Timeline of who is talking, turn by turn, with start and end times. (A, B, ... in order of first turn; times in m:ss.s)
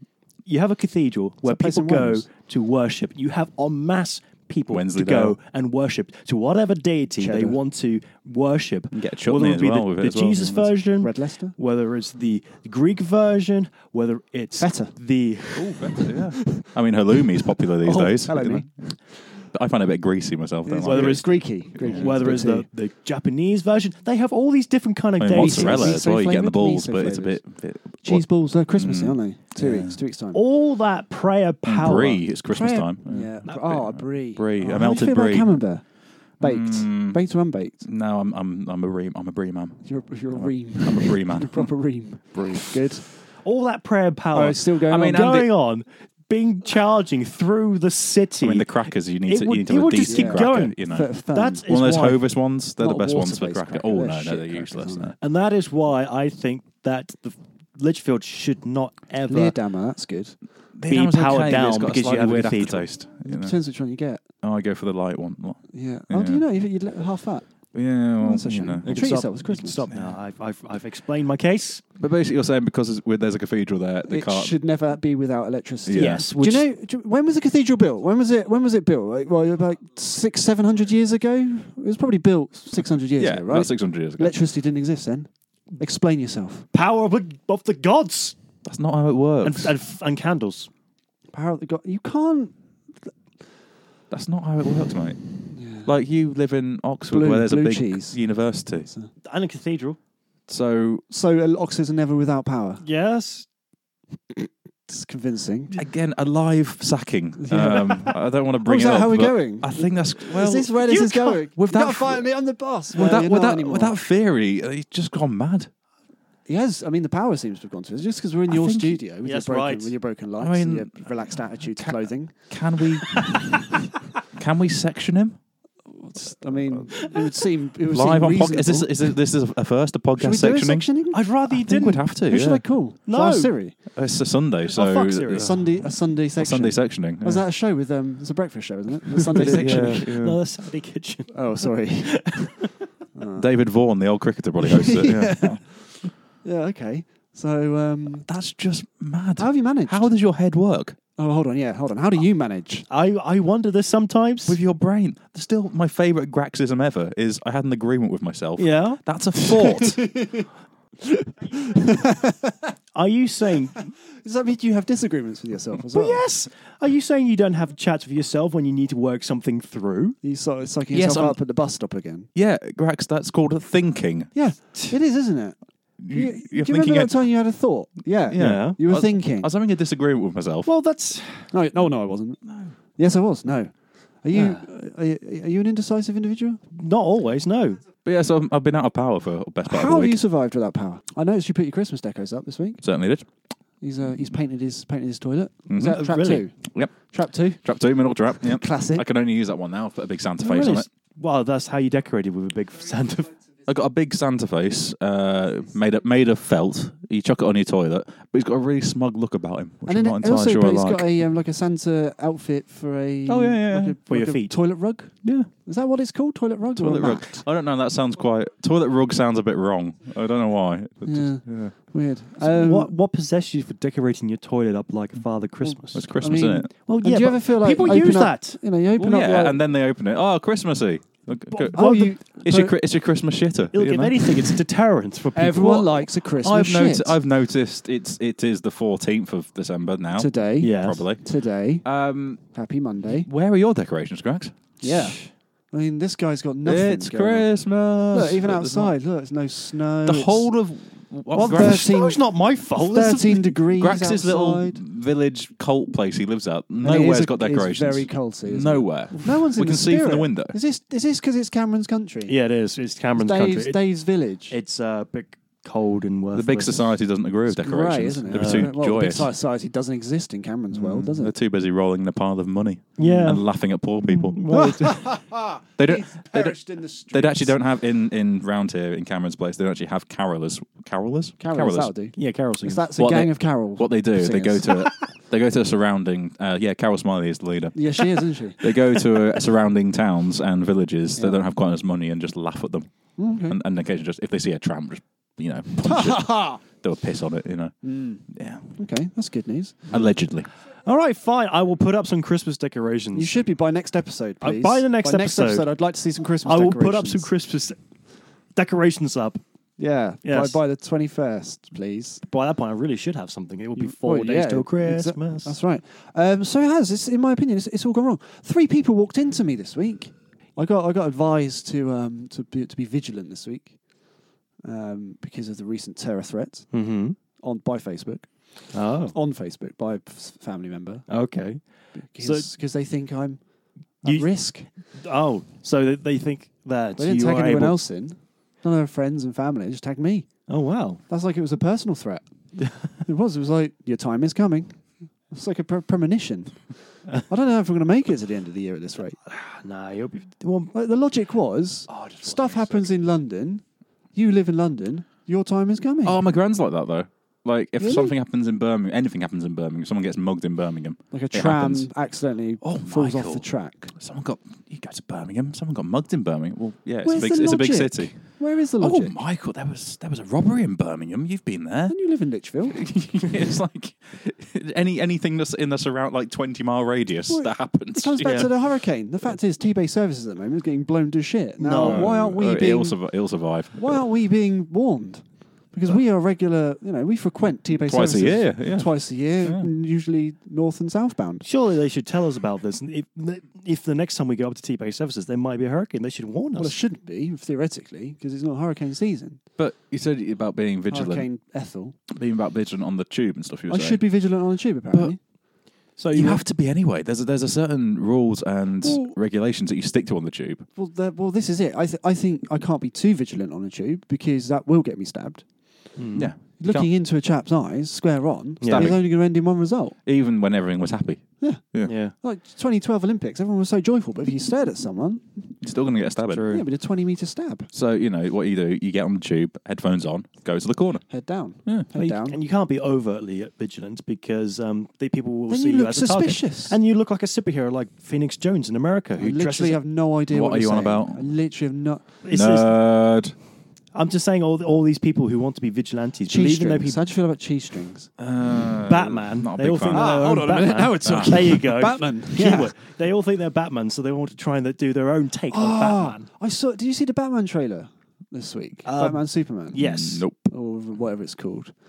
0:00.4-0:16.0 A
0:01.4-0:02.2 B
0:04.7-0:05.4 C
0:07.2-0:07.6 B
0:08.9-0:10.7 C
0:11.0-0:11.5 B
0:14.6-0:14.9 B
0:15.5-0:18.9 C
0:16.4-0:16.6 B
0:17.8-0:18.7 B
0:19.5-0:22.1 C
0:20.7-0:22.7 B
0:20.9-0:26.0 A
0:25.2-0:28.2 C
0:25.3-0:27.4 B
0:28.0-0:30.4 B
0:28.8-0:30.0 C
0:30.3-0:32.2 A
0:31.7-0:35.5 C
0:32.5-0:35.8 B
0:36.4-0:37.8 B
0:36.4-0:37.2 C
0:37.8-0:39.8 C
0:39.8-0:43.0 B
0:40.4-0:41.7 C
0:42.3-0:42.6 C
0:43.4-0:52.2 A
0:44.3-0:45.2 B
0:44.9-0:45.5 C
0:48.4-0:51.1 C
0:50.1-0:51.6 B
0:51.7-0:55.1 C
0:52.8-0:55.2 B
0:55.2-0:59.6 A
0:59.3-1:00.4 B
1:00.8-1:03.5 C
1:00.9-1:02.9 A
1:03.2-1:04.2 B
1:04.4-1:06.4 C
1:05.7-1:07.4 B
1:07.7-1:09.1 C
1:08.2-1:09.8 B
1:08.8-1:11.8 A
1:09.9-1:10.1 C
1:12.0-1:14.6 C
1:14.1-1:26.7 B
1:15.8-1:16.3 C
1:15.9-1:16.7 A
1:23.2-1:24.4 C
1:26.7-1:28.4 A
1:28.6-1:29.8 C
1:29.4-1:30.7 A
1:31.3-1:32.5 B
1:34.1-1:35.2 C
1:35.5-1:35.9 B
1:35.7-1:38.9 C
1:37.1-1:38.2 B
1:38.8-1:39.1 B
1:39.2-1:40.0 A
1:40.5-1:41.0 C
1:41.1-1:42.8 B
1:42.8-1:43.4 A
1:44.3-1:45.8 B
1:45.7-1:50.8 C
1:47.4-1:54.0 B
1:50.8-1:51.5 A
1:51.6-1:52.3 C
1:52.9-1:55.7 C
1:56.5-2:02.4 B
1:58.5-1:59.0 C
1:59.2-1:59.9 A
2:00.4-2:03.6 C
2:04.4-2:05.4 C
2:05.9-2:09.1 B
2:07.0-2:07.5 A
2:07.9-2:10.9 C
2:10.2-2:13.8 B
2:11.1-2:12.0 A
2:11.5-2:12.6 C
2:13.1-2:13.5 A
2:14.0-2:15.5 C
2:14.7-2:15.7 A
2:15.3-2:20.1 B
2:16.4-2:17.4 C
2:19.1-2:22.7 A
2:19.4-2:20.4 C
2:21.3-2:22.6 B
2:23.2-2:23.5 B
2:23.4-2:25.6 C
2:24.6-2:25.7 B
2:26.4-2:28.2 B
2:28.1-2:31.0 C
2:29.4-2:30.1 B
2:31.2-2:32.9 B
2:32.9-2:34.6 A
2:34.5-2:40.0 C
2:38.6-2:39.0 A
2:39.5-2:40.5 B
2:41.0-2:42.7 B
2:42.9-2:43.9 A
2:44.2-2:46.2 B
2:45.9-2:50.2 A
2:50.2-2:52.3 B
2:50.9-2:51.4 C
2:52.4-2:54.3 C
2:54.3-2:55.6 B
2:56.0-2:57.2 C
2:56.1-2:59.5 B
2:58.2-3:00.7 C
2:58.4-2:58.8 A
3:00.7-3:01.5 A
3:01.5-3:02.4 B
3:02.9-3:06.6 B
3:04.3-3:04.6 A
3:06.7-3:07.8 A
3:08.0-3:10.2 C
3:09.7-3:12.8 B
3:12.8-3:13.2 C
3:13.8-3:16.5 B
3:15.7-3:16.0 C
3:16.0-3:16.4 A
3:16.5-3:16.9 C
3:17.1-3:17.6 B
3:17.6-3:20.9 C
3:18.4-3:19.1 B
3:20.4-3:23.3 A
3:23.7-3:31.1 C
3:29.9-3:37.4 B
3:33.3-3:34.0 C
3:34.1-3:34.6 A
3:35.2-3:35.5 C
3:36.8-3:41.7 C
3:41.0-3:42.9 B
3:42.4-3:46.1 A
3:45.6-3:49.6 B
3:45.9-3:46.7 C
3:46.8-3:48.6 A
3:49.0-3:51.8 C
3:51.5-3:52.1 A
3:51.7-3:52.8 B
3:52.4-3:54.6 C
3:53.7-3:55.9 A
3:55.4-3:57.1 B
3:56.3-4:01.2 C
4:00.2-4:01.8 B
4:00.6-4:01.0 A
4:01.8-4:02.4 C
4:02.5-4:03.3 B
4:03.2-4:04.6 C
4:04.8-4:07.5 B
4:04.8-4:05.3 A
4:06.6-4:08.9 C
4:08.1-4:10.5 B
4:10.0-4:11.9 C
4:11.4-4:13.6 A
4:11.4-4:14.8 B
4:13.8-4:20.6 C
4:16.8-4:22.4 B
4:22.3-4:23.8 A
4:23.1-4:24.6 B
4:24.5-4:26.9 A
4:26.3-4:29.3 C
4:27.5-4:31.3 B
4:28.3-4:28.7 A
4:30.7-4:34.7 C
4:33.0-4:33.5 A
4:34.0-4:35.0 A
4:34.5-4:37.6 B
4:35.8-4:36.6 C
4:37.1-4:41.9 C
4:41.4-4:44.8 B
4:42.1-4:42.9 A
4:43.0-4:48.1 C
4:47.8-4:48.6 B
4:48.6-4:52.9 C
4:51.2-4:51.4 B
4:53.2-4:53.6 B
4:53.5-4:57.7 C
4:55.8-4:56.6 B
4:57.8-4:58.2 B
4:58.3-4:58.6 C
4:58.8-4:59.9 B
4:59.9-5:00.5 C
5:00.8-5:03.3 A
5:03.1-5:07.3 B
5:04.4-5:05.7 A
5:06.4-5:07.8 A
5:08.5-5:09.4 A
5:09.8-5:12.2 B
5:10.2-5:10.6 A
5:12.2-5:15.6 A
5:13.8-5:23.8 B
5:24.6-5:26.7 B
5:26.7-5:27.2 A
5:27.4-5:28.3 B
5:28.7-5:29.1 A
5:29.1-5:31.0 B
5:31.1-5:31.6 A
5:32.0-5:33.4 B
5:32.2-5:32.5 A
5:34.0-5:34.7 B
5:34.0-5:34.3 A
5:34.9-5:37.8 A
5:37.0-5:40.3 B
5:40.5-5:41.0 A
5:41.1-5:42.2 B
5:42.9-5:46.6 B
5:47.2-5:49.2 B
5:49.3-5:50.7 A
5:50.7-5:53.6 B
5:51.9-5:52.9 A
5:54.1-5:56.2 B
5:56.0-6:01.9 C
5:57.8-5:58.1 B
6:01.1-6:03.9 B
6:02.6-6:08.2 C
6:07.0-6:09.1 B
6:08.8-6:12.0 C
6:11.9-6:12.8 B
6:12.7-6:18.5 C
6:17.3-6:23.0 B
6:18.2-6:18.5 A
6:21.6-6:22.1 A
6:21.8-6:24.0 C
6:23.7-6:31.4 B
6:27.9-6:28.9 C
6:29.4-6:29.7 C
6:31.4-6:36.8 A
6:36.6-6:39.4 B
6:39.6-6:41.3 C
6:40.9-6:42.0 B
6:42.1-6:44.0 C
6:43.7-6:45.2 B
6:46.0-6:46.4 A
6:46.1-6:50.6 C
6:48.8-6:49.1 B
6:50.8-6:55.4 B
6:56.0-6:56.3 A
6:56.1-6:56.9 C
6:56.6-7:00.0 B
6:58.6-6:59.0 A
6:58.6-6:59.0 C
7:00.1-7:01.9 C
7:01.4-7:05.5 B
7:01.9-7:02.1 A
7:05.6-7:06.5 C
7:06.3-7:06.6 A
7:06.5-7:07.7 B
7:07.7-7:11.0 C
7:11.1-7:12.4 B
7:12.0-7:19.8 A
7:15.5-7:16.8 B
7:19.2-7:22.1 B
7:20.3-7:21.3 C
7:22.2-7:22.8 A
7:22.3-7:23.3 C
7:23.9-7:27.0 A
7:26.3-7:28.1 B
7:28.2-7:30.2 C
7:28.8-7:36.3 A
7:29.9-7:32.7 B
7:31.0-7:31.4 C
7:35.5-7:39.8 B
7:38.9-7:40.2 A
7:39.8-7:40.5 C
7:40.5-7:41.7 B